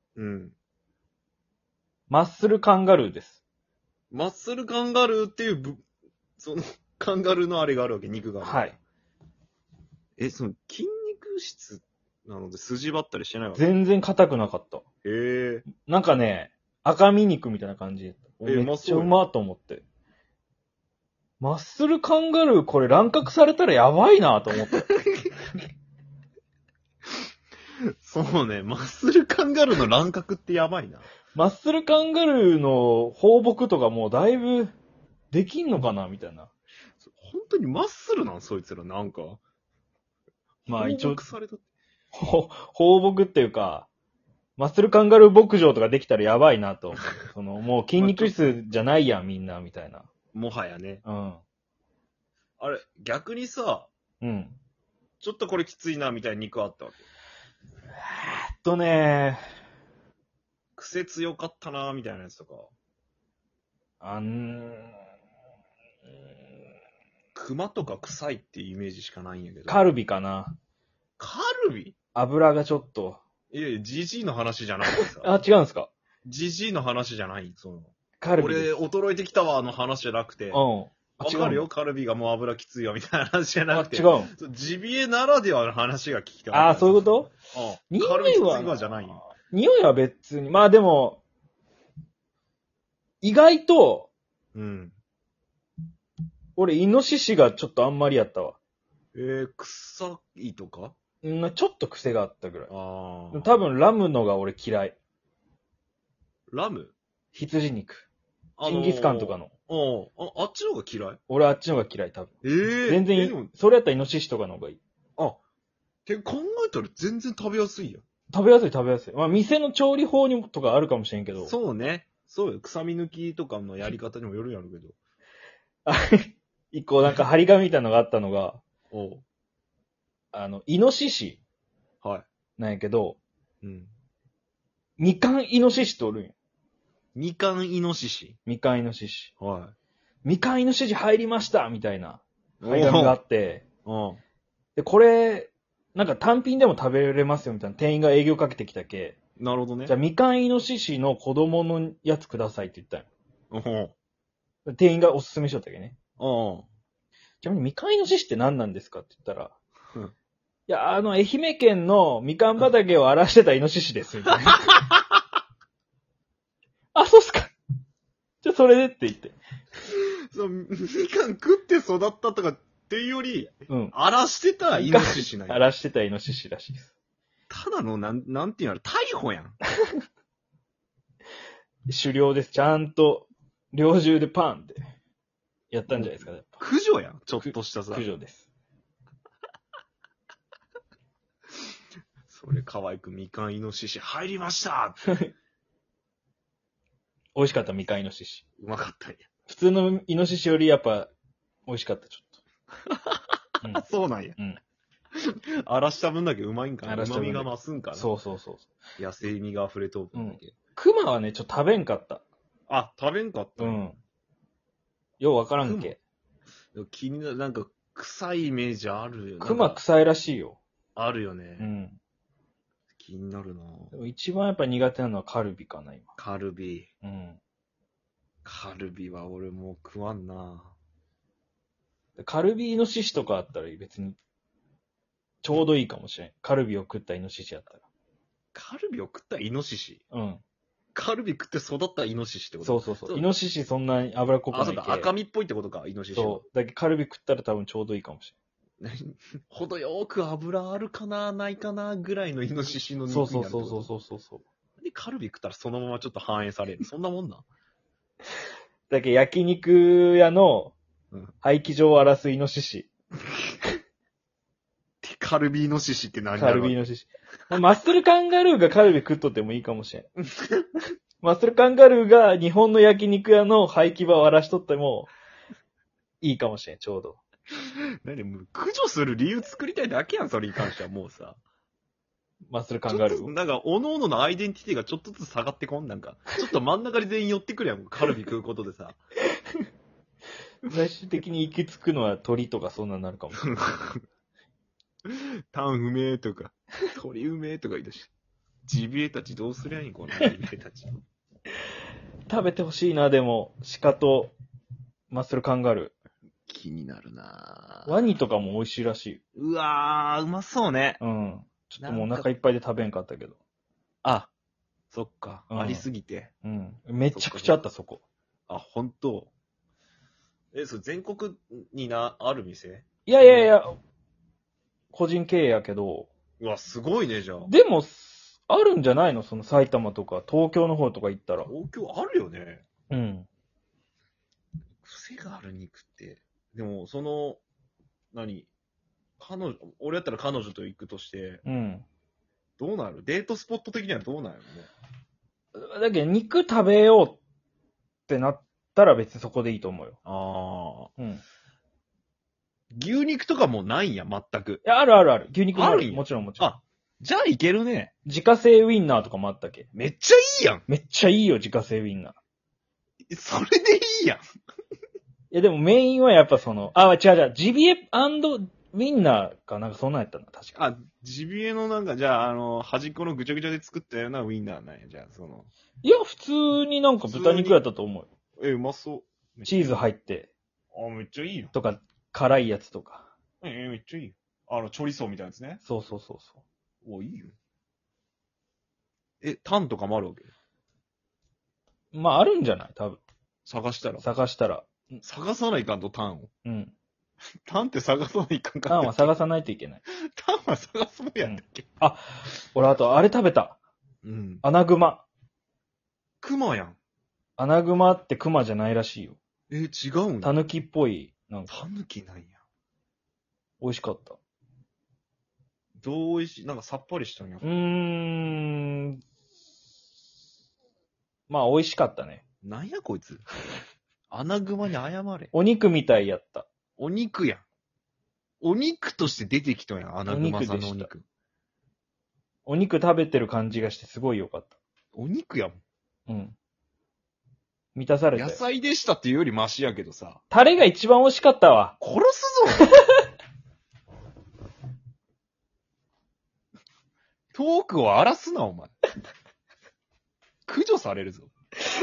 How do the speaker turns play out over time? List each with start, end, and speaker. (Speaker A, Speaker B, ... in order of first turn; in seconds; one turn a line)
Speaker A: 0.2-0.6
Speaker B: 2.1-3.4
Speaker A: 4.1-5.8
Speaker A: 6.4-8.8
Speaker B: 8.4-8.8
Speaker A: 10.2-13.7
Speaker B: 13.6-14.8
Speaker A: 15.0-15.7
Speaker B: 15.8-19.8
Speaker A: 18.4-19.2
Speaker B: 21.4-24.9
Speaker A: 24.7-25.4
Speaker A: 28.0-31.1
Speaker B: 31.3-34.7
Speaker B: 35.3-36.5
Speaker A: 37.0-39.4
Speaker A: 40.7-41.6
Speaker B: 40.7-41.2
Speaker B: 42.1-43.9
Speaker B: 44.6-50.1
Speaker A: 48.0-48.5
Speaker A: 50.3-51.0
Speaker B: 51.0-51.4
Speaker A: 52.6-53.9
Speaker B: 54.2-54.6
Speaker A: 55.2-57.0
Speaker B: 57.9-59.4
Speaker A: 60.8-62.7
Speaker B: 64.0-64.9
Speaker A: 67.3-69.9
Speaker B: 69.7-70.6
Speaker A: 71.2-72.0
Speaker B: 72.2-73.2
Speaker A: 73.5-75.4
Speaker B: 75.1-75.9
Speaker A: 76.2-80.6
Speaker B: 78.2-78.8
Speaker B: 80.5-81.7
Speaker A: 81.2-89.2
Speaker B: 83.7-84.3
Speaker B: 86.5-87.4
Speaker B: 87.9-91.2
Speaker B: 93.2-94.1
Speaker A: 94.5-95.0
Speaker B: 96.6-98.6
Speaker A: 99.2-101.0
Speaker B: 101.2-102.7
Speaker A: 102.7-103.5
Speaker B: 103.3-105.0
Speaker A: 106.5-107.0
Speaker B: 107.3-108.1
Speaker A: 108.6-111.2
Speaker B: 108.7-109.5
Speaker B: 111.3-114.8
Speaker A: 112.4-113.5
Speaker A: 116.1-118.0
Speaker B: 118.3-121.5
Speaker A: 121.4-125.0
Speaker B: 125.9-128.6
Speaker A: 128.9-129.2
Speaker B: 130.3-131.4
Speaker B: 132.6-133.2
Speaker A: 133.6-133.9
Speaker B: 135.0-136.3
Speaker A: 137.2-138.4
Speaker B: 138.5-139.3
Speaker A: 139.4-139.7
Speaker B: 140.2-143.6
Speaker A: 142.6-143.2
Speaker A: 143.8-144.2
Speaker B: 144.8-149.2
Speaker A: 149.4-150.0
Speaker B: 149.9-153.1
Speaker A: 153.5-153.9
Speaker B: 154.7-156.0
Speaker A: 156.2-156.7
Speaker B: 157.4-159.5
Speaker B: 160.7-164.7
Speaker B: 166.9-167.5
Speaker B: 168.4-169.4
Speaker A: 169.8-175.7
Speaker B: 173.7-173.9
Speaker B: 174.7-176.9
Speaker A: 177.5-179.6
Speaker B: 181.9-184.9
Speaker B: 185.7-186.6
Speaker A: 185.9-188.1
Speaker B: 187.4-188.5
Speaker A: 192.3-195.2
Speaker B: 197.3-198.4
Speaker A: 198.6-199.3
Speaker B: 199.5-201.1
Speaker B: 201.7-202.4
Speaker A: 202.9-203.2
Speaker A: 203.7-204.4
Speaker A: 205.2-208.1
Speaker B: 206.9-208.7
Speaker A: 209.0-210.5
Speaker B: 210.1-212.2
Speaker A: 212.7-213.9
Speaker B: 213.6-213.9
Speaker B: 215.2-216.0
Speaker A: 215.6-215.9
Speaker A: 216.7-219.8
Speaker B: 219.4-220.6
Speaker A: 220.9-221.7
Speaker B: 221.6-222.0
Speaker A: 223.0-223.9
Speaker B: 223.9-226.1
Speaker A: 226.2-226.9
Speaker B: 227.0-227.4
Speaker A: 228.4-230.8
Speaker B: 232.2-234.2
Speaker B: 235.4-237.8
Speaker A: 238.5-240.0
Speaker B: 240.1-240.4
Speaker A: 240.9-243.3
Speaker B: 242.6-245.1
Speaker A: 244.5-246.4
Speaker B: 246.1-248.3
Speaker A: 248.8-253.9
Speaker B: 253.1-254.4
Speaker A: 254.8-257.4
Speaker B: 258.9-260.8
Speaker B: 261.4-262.9
Speaker A: 265.0-266.8
Speaker B: 266.4-270.1
Speaker A: 270.4-270.7
Speaker B: 271.2-275.1
Speaker B: 276.2-277.2
Speaker A: 278.0-281.4
Speaker B: 282.5-283.3
Speaker A: 282.9-289.0
Speaker B: 290.7-293.5
Speaker A: 293.4-294.0
Speaker A: 295.1-298.1
Speaker A: 298.7-301.0
Speaker B: 302.3-304.3
Speaker B: 305.1-305.9
Speaker A: 306.5-308.0
Speaker B: 307.9-309.2
Speaker A: 309.4-311.0
Speaker B: 311.0-313.4
Speaker A: 311.8-312.3
Speaker A: 314.0-314.3
Speaker A: 314.9-316.3
Speaker B: 315.5-315.9
Speaker B: 316.4-318.0
Speaker A: 317.1-317.6
Speaker A: 318.5-319.3
Speaker A: 320.5-323.5
Speaker B: 323.1-323.7
Speaker B: 324.9-326.1
Speaker A: 326.4-327.5
Speaker B: 327.5-331.5
Speaker A: 331.5-332.6
Speaker B: 332.9-333.3
Speaker A: 334.8-337.4
Speaker A: 338.1-338.5
Speaker A: 339.2-341.4
Speaker B: 341.4-341.9
Speaker A: 342.6-344.7
Speaker B: 345.6-347.2
Speaker B: 348.1-350.0
Speaker A: 350.1-350.9
Speaker A: 352.7-354.6
Speaker B: 354.6-356.5
Speaker A: 355.5-357.9
Speaker B: 358.1-359.7
Speaker A: 359.7-360.6
Speaker B: 360.7-362.2
Speaker A: 363.1-364.2
Speaker B: 365.3-370.6
Speaker A: 370.6-375.5
Speaker B: 375.8-378.1
Speaker A: 377.0-377.6
Speaker A: 378.4-379.8
Speaker B: 379.5-380.3
Speaker A: 380.7-381.5
Speaker B: 381.5-383.1
Speaker A: 383.4-385.6
Speaker B: 385.6-386.4
Speaker A: 386.8-387.4
Speaker A: 389.2-390.3
Speaker B: 391.9-393.0
Speaker A: 393.5-394.0
Speaker B: 394.0-395.0
Speaker A: 395.0-396.3
Speaker B: 396.4-396.7
Speaker A: 397.5-399.1
Speaker B: 398.7-399.8
Speaker A: 399.9-401.7
Speaker B: 401.2-403.6
Speaker A: 404.0-404.4
Speaker B: 404.4-405.1
Speaker A: 406.2-406.8
Speaker B: 407.4-409.2
Speaker A: 409.5-410.4
Speaker B: 410.2-411.6
Speaker A: 411.5-412.4
Speaker B: 413.6-414.2
Speaker A: 415.8-417.6
Speaker B: 417.4-419.0
Speaker B: 421.3-422.2
Speaker A: 422.4-423.2
Speaker A: 424.1-425.3
Speaker B: 425.3-426.5
Speaker A: 426.8-427.4
Speaker A: 428.4-431.1
Speaker B: 430.1-430.9
Speaker B: 432.5-434.6
Speaker A: 434.9-435.6
Speaker B: 436.1-436.4
Speaker B: 437.8-438.4
Speaker A: 438.2-440.2
Speaker B: 440.3-441.7
Speaker A: 441.8-442.7
Speaker B: 442.6-443.0
Speaker A: 447.3-448.7
Speaker A: 450.5-451.3